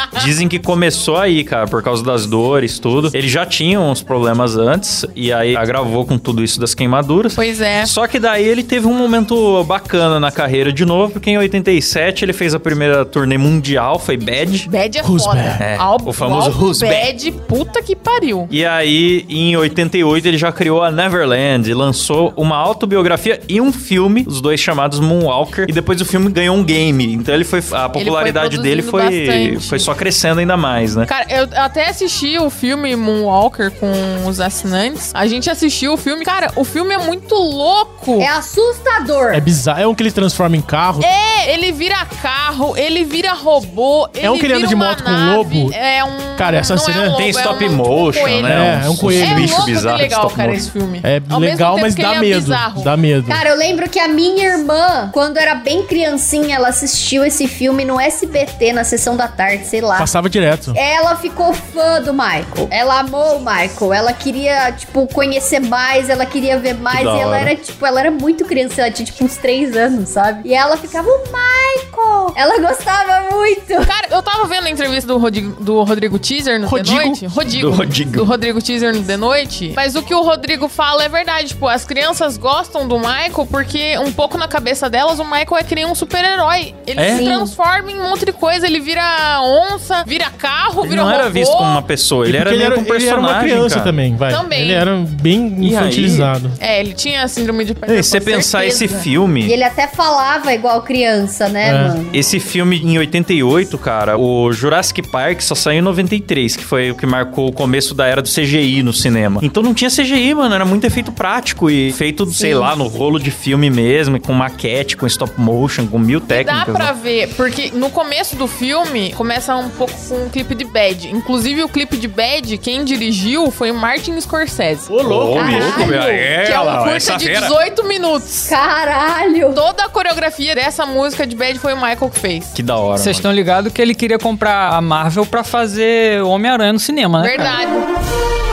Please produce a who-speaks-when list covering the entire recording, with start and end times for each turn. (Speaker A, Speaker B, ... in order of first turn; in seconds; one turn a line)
Speaker A: 0.1-14.7
Speaker B: 7.3-7.9
Speaker B: 14.7-18.5
Speaker C: 15.0-15.6
Speaker A: 15.6-17.1
Speaker A: 18.5-31.1
Speaker B: 27.9-29.9
Speaker B: 31.1-38.3
Speaker D: 38.2-39.5
Speaker C: 39.3-41.1
Speaker B: 41.0-52.9
Speaker C: 44.2-45.8
Speaker C: 46.4-47.2
Speaker A: 47.2-50.7
Speaker C: 48.5-49.6
Speaker C: 51.0-53.4
Speaker D: 53.3-60.1
Speaker C: 60.0-60.8
Speaker D: 60.7-73.9
Speaker A: 66.9-67.5
Speaker B: 73.8-91.8
Speaker C: 76.7-77.2
Speaker A: 77.5-78.3
Speaker A: 87.0-87.2
Speaker D: 87.1-87.5
Speaker A: 90.8-94.0
Speaker C: 92.2-96.5
Speaker B: 94.3-94.9
Speaker A: 95.6-96.3
Speaker B: 96.6-99.0
Speaker A: 97.9-99.5
Speaker D: 99.4-102.3
Speaker C: 101.6-102.0
Speaker A: 102.1-116.9
Speaker D: 112.3-112.7
Speaker B: 116.3-124.9
Speaker C: 124.9-125.9
Speaker A: 125.0-127.5
Speaker D: 125.3-126.3
Speaker B: 125.5-128.5
Speaker D: 128.5-129.6
Speaker B: 129.5-132.6
Speaker A: 132.5-133.3
Speaker E: 133.0-137.6
Speaker B: 137.2-137.8